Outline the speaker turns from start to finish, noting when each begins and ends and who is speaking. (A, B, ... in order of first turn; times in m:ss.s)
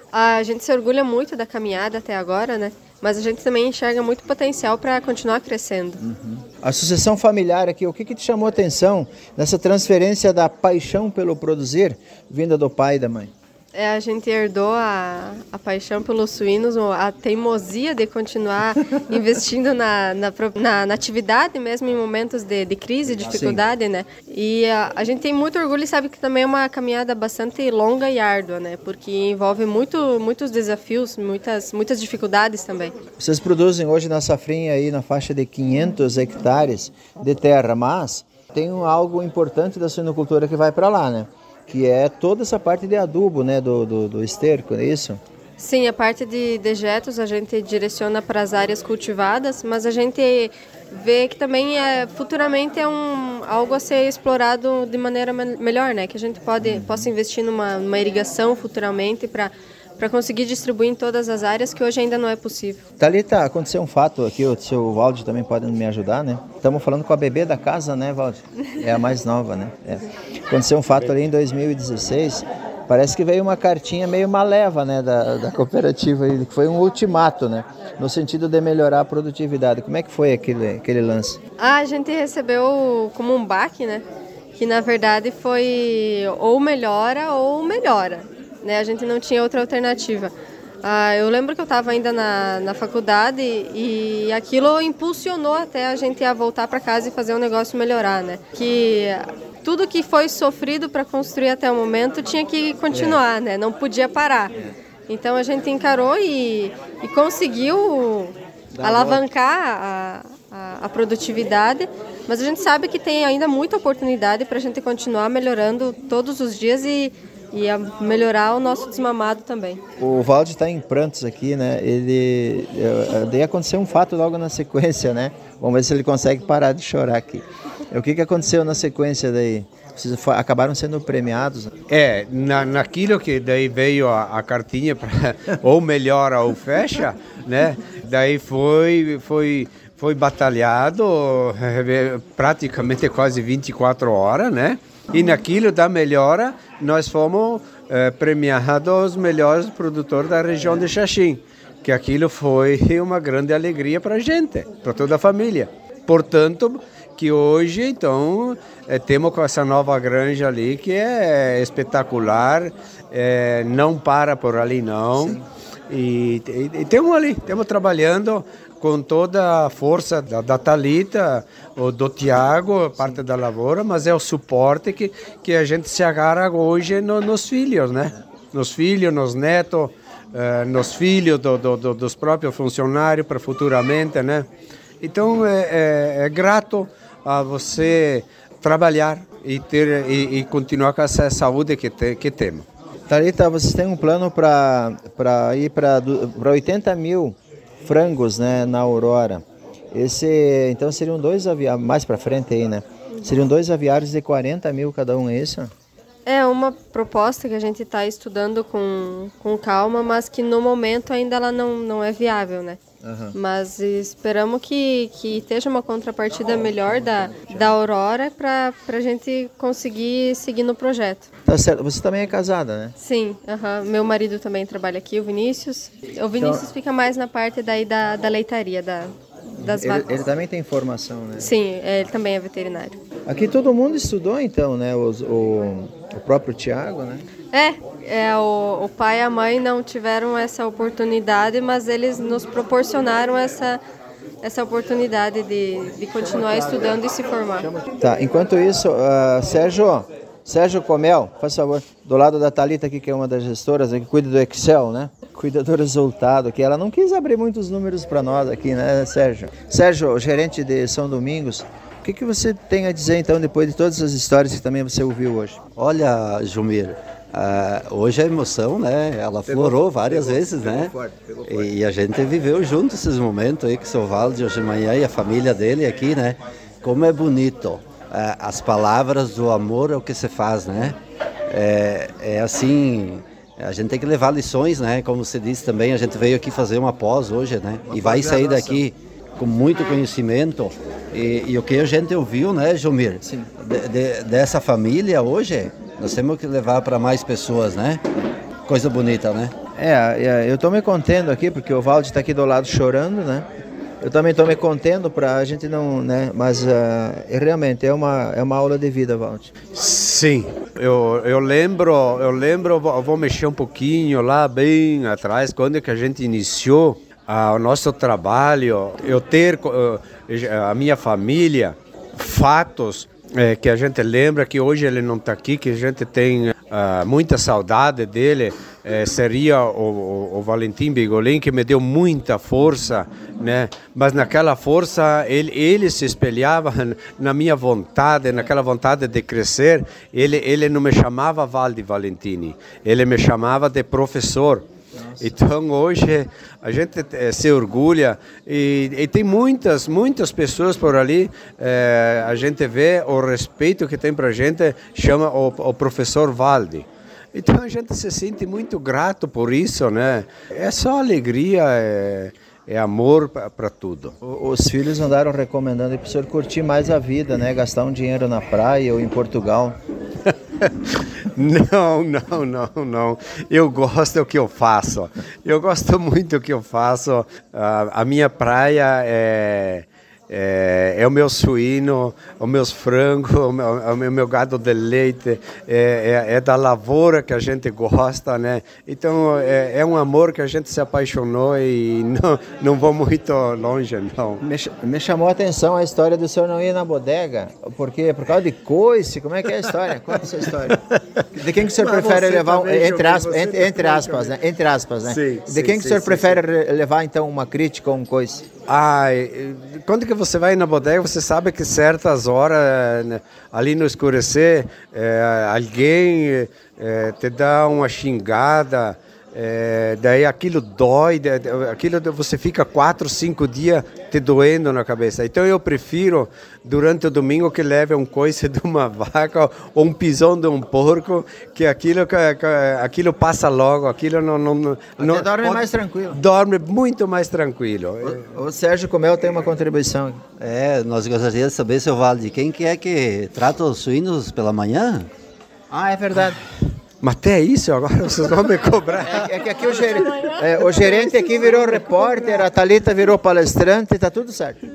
0:00.1-0:06.0 A
0:06.0-0:13.3 B
0:13.7-0:32.9 A
0:23.2-0:23.6 B
0:33.2-0:45.2 B
0:45.6-1:02.8 A
0:56.6-0:57.1 B
1:03.0-1:21.4 B
1:21.6-1:24.0 A
1:24.6-1:44.5 A
1:42.9-1:43.2 B
1:45.1-1:59.8 A
1:48.8-1:49.2 B
2:00.0-2:11.7 B
2:11.9-3:04.5 C
2:45.2-2:45.4 B
3:05.0-3:12.6 C
3:13.1-3:25.7 B
3:26.2-3:32.8 A
3:33.0-3:33.4 B
3:33.3-3:41.2 A
3:36.5-3:37.7 B
3:41.4-3:42.9 B
3:43.0-3:50.2 A
3:46.4-3:46.6 B
3:49.6-3:51.5 B
3:51.4-3:53.0 A
3:53.3-3:57.2 B
3:57.5-4:03.8 A
4:04.4-4:07.7 A
4:06.4-4:06.9 B
4:07.6-4:25.6 B
4:25.8-4:59.5 D
4:29.4-4:31.7 B
4:47.9-4:48.8 B
4:53.2-4:53.5 B
4:59.8-5:03.4 B
5:04.0-5:09.5 B
5:09.7-5:44.6 C
5:44.9-5:45.3 B
5:45.2-6:04.1 C
6:04.2-6:09.8 B
6:10.6-6:34.4 C
6:34.4-6:40.8 B
6:41.3-6:48.4 B
6:41.7-6:44.4 C
6:45.0-6:46.4 C
6:48.7-7:18.2 C
7:15.0-7:16.2 B
7:18.0-7:20.2 B
7:20.4-7:25.1 D
7:25.7-7:26.4 B
7:27.0-7:30.3 C
7:29.1-7:34.6 B
7:31.4-7:31.7 C